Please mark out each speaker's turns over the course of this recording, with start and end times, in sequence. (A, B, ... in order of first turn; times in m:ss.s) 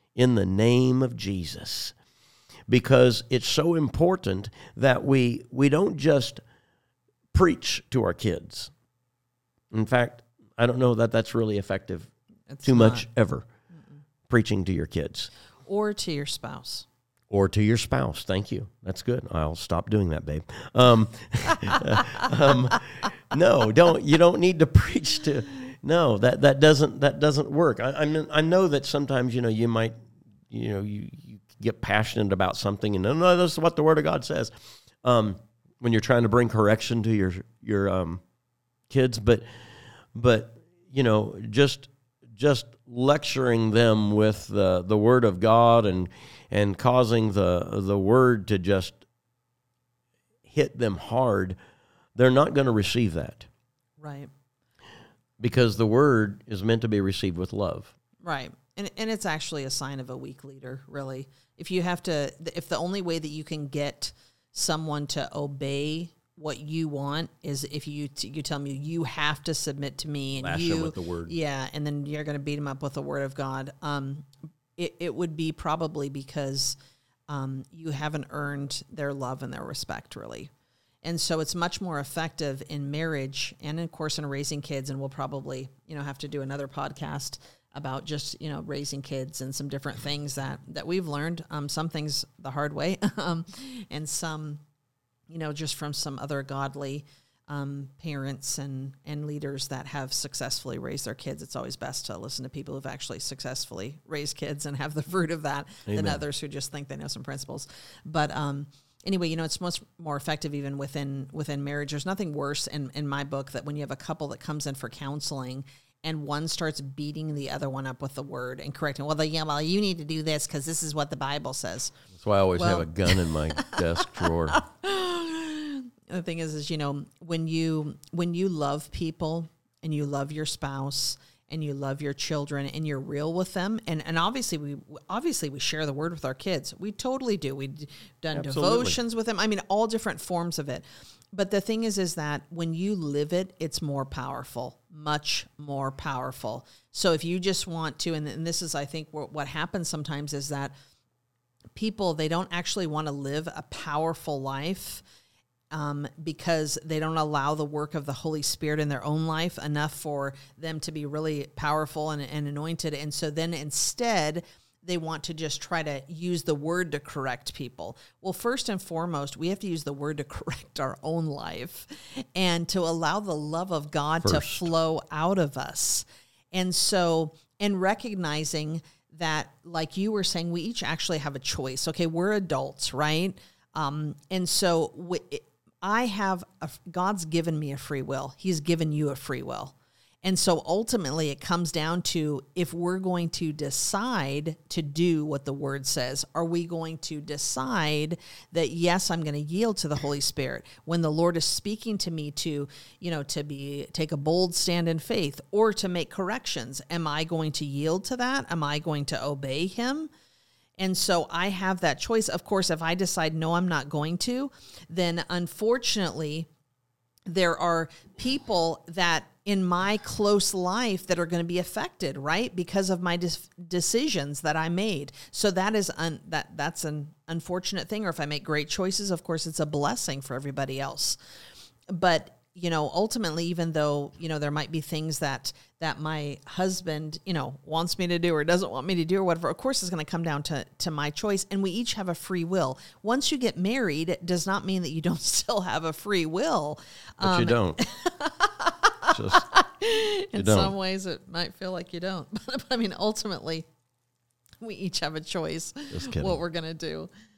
0:00.2-0:01.9 A
0:02.7-0:06.4 A
0:07.3-0:08.7 A
0:09.7-0:12.1 A
0:12.5-0:13.0 B
0:12.6-0:13.4 A
0:14.3-0:15.3 A
0:15.6-0:16.8 B
0:17.3-0:30.0 A
0:30.5-0:34.5 A
0:35.0-0:38.2 A
0:38.9-0:39.4 A
0:40.1-0:49.0 A
0:50.4-0:51.6 A
0:52.2-0:53.5 A
0:54.0-0:54.3 B
0:55.4-0:57.9 A
0:58.2-1:16.8 B
1:10.4-1:11.3 A
1:17.3-1:20.5 B
1:21.0-1:34.6 B
1:35.3-2:02.0 B
1:45.9-1:46.2 A
2:02.1-2:04.6 A
2:02.6-2:30.7 B
2:18.3-2:19.0 A
2:31.7-2:35.0 B
2:35.7-3:30.1 B
2:54.2-2:54.7 A
3:30.8-3:36.5 B
3:37.3-3:51.2 B
3:51.9-4:13.6 B
4:07.2-4:07.8 A
4:09.0-4:09.4 A
4:10.3-4:10.7 A
4:14.6-4:17.1 B
4:15.9-4:16.4 A